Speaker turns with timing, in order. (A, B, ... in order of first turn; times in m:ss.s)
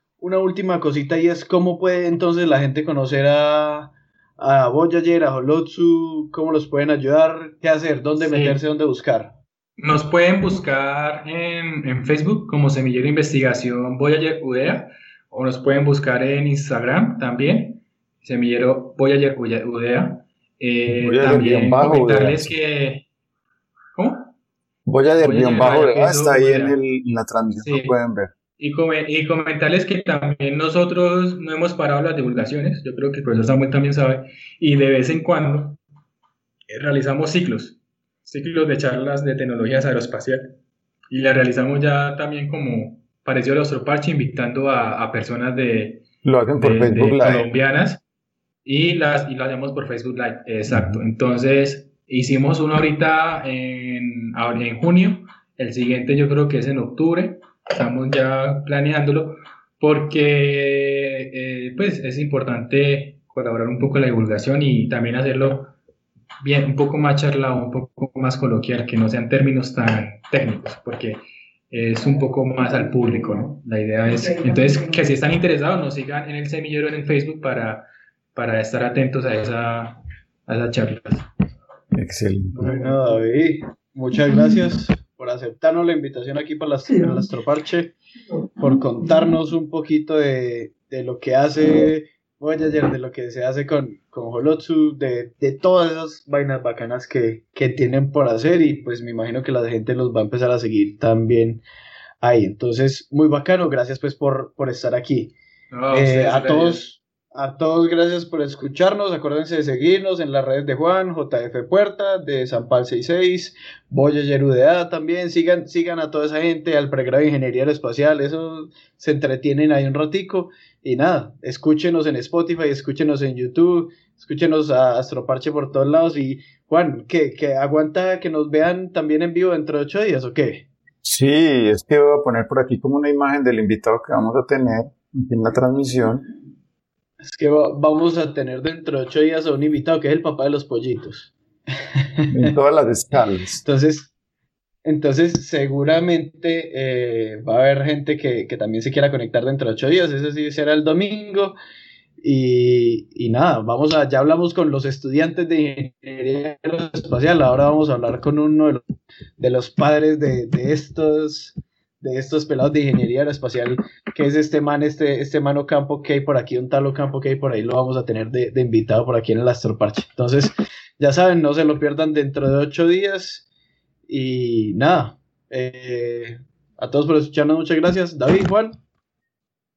0:00.2-0:09.3 A
0:08.2-0:08.6 B
0:09.8-0:23.0 B
0:20.9-0:22.5 C
0:23.9-0:24.3 B
0:24.8-0:28.3 C
0:25.2-0:26.8 B
0:27.6-0:27.9 B
0:28.6-0:35.8 B
0:36.7-0:40.4 B
0:41.1-0:46.0 B
0:46.2-0:47.5 C
0:46.6-0:48.0 B
0:48.6-1:05.7 B
0:50.7-0:51.0 C
1:06.4-1:21.3 B
1:21.9-1:22.8 C
1:22.6-1:27.9 A
1:22.6-1:22.9 B
1:28.6-1:41.6 A
1:42.2-1:45.3 A
1:45.7-1:46.8 B
1:45.9-2:10.7 A
2:11.0-2:16.2 C
2:17.2-2:21.3 A
2:22.0-2:22.5 A
2:22.3-2:23.6 C
2:23.6-2:24.1 A
2:24.8-2:31.5 A
2:32.2-2:38.8 A
2:39.4-2:53.4 A
2:54.1-2:58.8 A